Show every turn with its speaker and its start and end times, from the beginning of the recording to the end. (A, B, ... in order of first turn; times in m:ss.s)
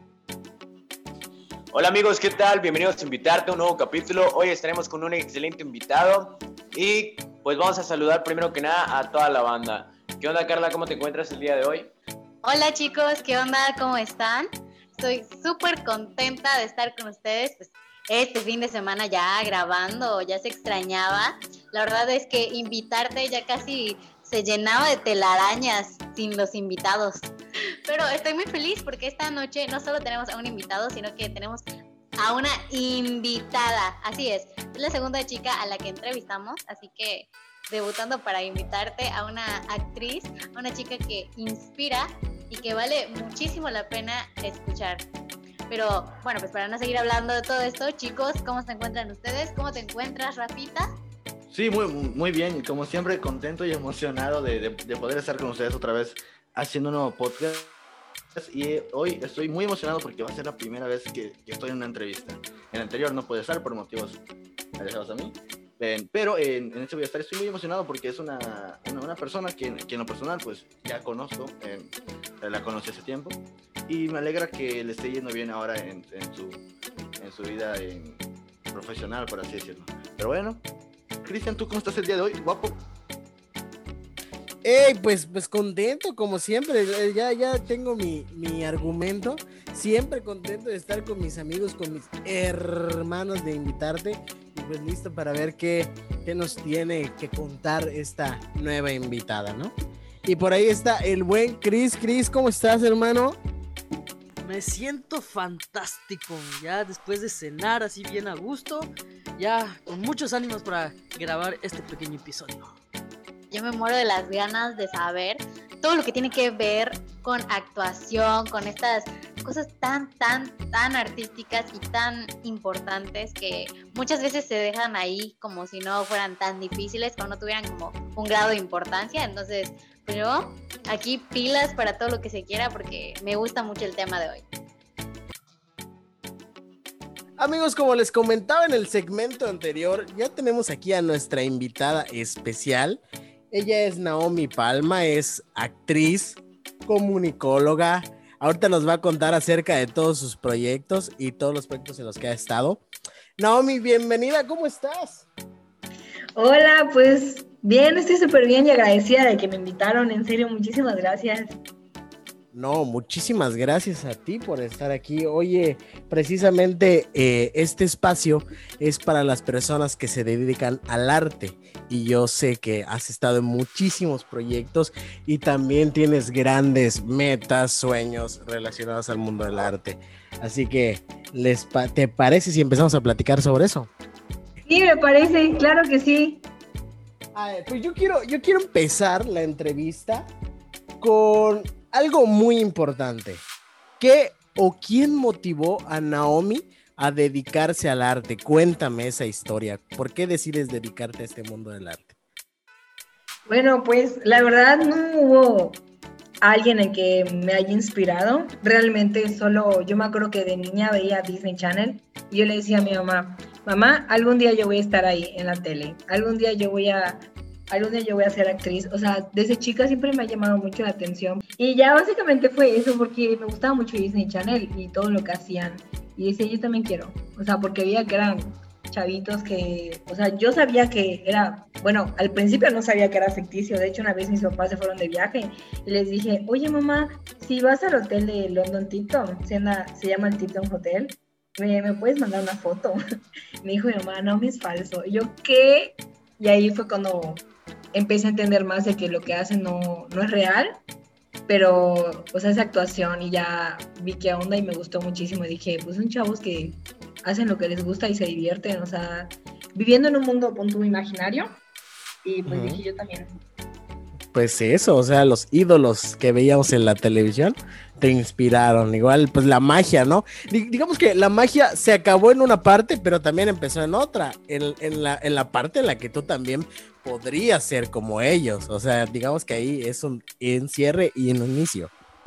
0:01.7-0:11.9 A
0:12.4-0:27.3 B
0:27.9-0:31.6 B
0:32.2-0:45.0 B
0:45.7-0:50.9 B
0:51.5-0:57.7 C
0:58.4-1:04.2 C
1:04.8-1:16.6 C
1:17.2-1:18.2 C
1:18.7-1:20.6 C
1:21.2-1:22.8 C
1:24.6-1:39.7 D
1:40.2-1:43.4 D
1:44.4-1:52.8 E
1:53.5-2:14.4 B
2:17.4-2:23.0 D
2:23.5-2:32.8 D
2:33.4-2:35.3 D
2:36.4-2:41.6 F
2:42.5-3:03.9 D
3:04.7-3:06.4 F
3:07.3-3:10.3 D
3:11.0-3:13.4 D
3:14.0-3:22.2 D
3:23.5-3:25.8 F
3:26.4-4:03.0 F
4:03.6-4:07.4 F
4:07.9-4:10.8 F
4:11.5-4:21.6 F
4:22.2-4:23.3 F
4:22.5-4:22.8 D
4:24.3-4:41.9 D